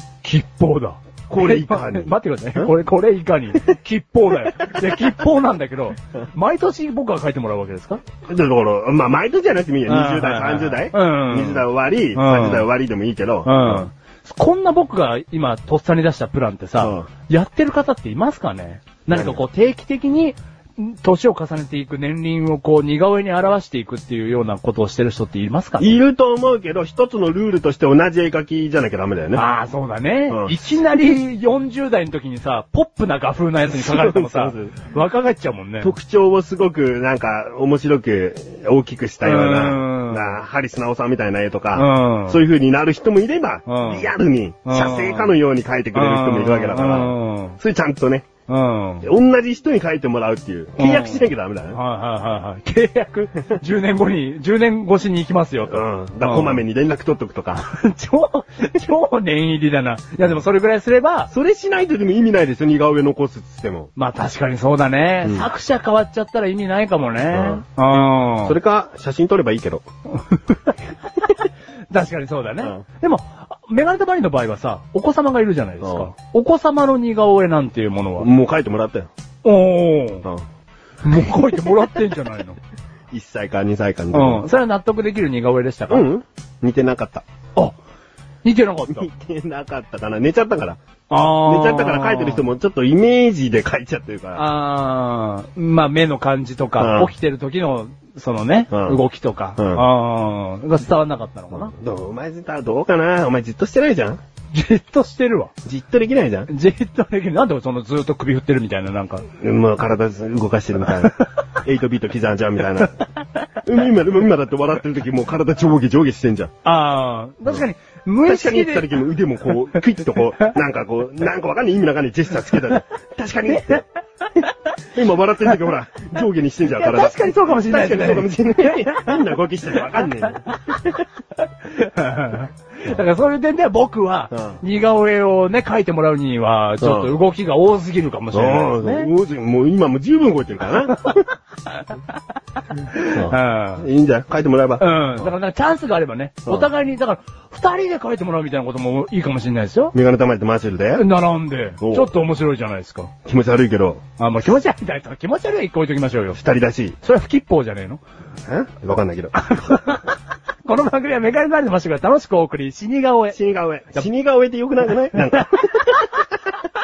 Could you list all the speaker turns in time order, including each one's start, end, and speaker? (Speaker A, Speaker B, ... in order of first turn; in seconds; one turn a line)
Speaker A: 0.2-8.0
Speaker B: 1.3-2.7
Speaker B: 8.2-13.9
Speaker A: 9.9-12.7
Speaker A: 13.5-26.0
Speaker B: 16.8-17.1
Speaker B: 19.1-19.4
Speaker B: 25.8-29.4
Speaker A: 29.3-35.9
Speaker B: 30.3-30.6
Speaker B: 33.7-34.8
Speaker B: 35.8-48.3
Speaker A: 39.2-40.4
Speaker A: 41.8-42.4
Speaker A: 43.7-44.1
Speaker A: 44.6-45.3
Speaker A: 45.9-47.6
Speaker A: 48.5-49.1
Speaker B: 49.0-51.8
Speaker A: 50.8-56.6
Speaker B: 55.7-57.6
Speaker A: 57.6-61.3
Speaker B: 61.3-63.9
Speaker A: 64.0-68.6
Speaker B: 65.2-65.5
Speaker B: 67.3-69.8
Speaker A: 71.9-78.3
Speaker B: 75.8-76.1
Speaker B: 78.2-79.1
Speaker A: 79.4-80.3
Speaker A: 81.0-82.6
Speaker B: 83.1-84.5
Speaker A: 84.1-86.1
Speaker B: 85.9-87.2
Speaker A: 88.4-89.1
Speaker B: 88.9-94.5
Speaker A: 91.1-92.4
Speaker A: 94.3-101.7
Speaker B: 96.8-97.1
Speaker B: 98.7-99.0
Speaker B: 99.6-99.9
Speaker B: 101.5-104.2
Speaker A: 104.5-105.5
Speaker B: 105.7-106.5
Speaker A: 106.5-109.3
Speaker B: 109.4-113.0
Speaker B: 113.7-116.5
Speaker A: 116.6-118.9
Speaker B: 118.2-123.8
Speaker A: 123.6-124.5
Speaker B: 124.9-131.0
Speaker A: 126.7-129.2
Speaker A: 129.7-139.1
Speaker B: 134.3-134.6
Speaker B: 136.8-137.1
Speaker B: 138.3-141.2
Speaker A: 142.7-143.9
Speaker B: 143.0-145.3
Speaker A: 144.8-149.9
Speaker B: 149.9-151.1
Speaker A: 150.9-153.1
Speaker B: 151.8-152.1
Speaker B: 153.3-154.0
Speaker A: 154.2-156.4
Speaker B: 156.3-157.0
Speaker A: 157.0-158.0
Speaker B: 158.5-159.8
Speaker A: 159.4-160.1
Speaker A: 160.6-163.4
Speaker B: 163.3-166.2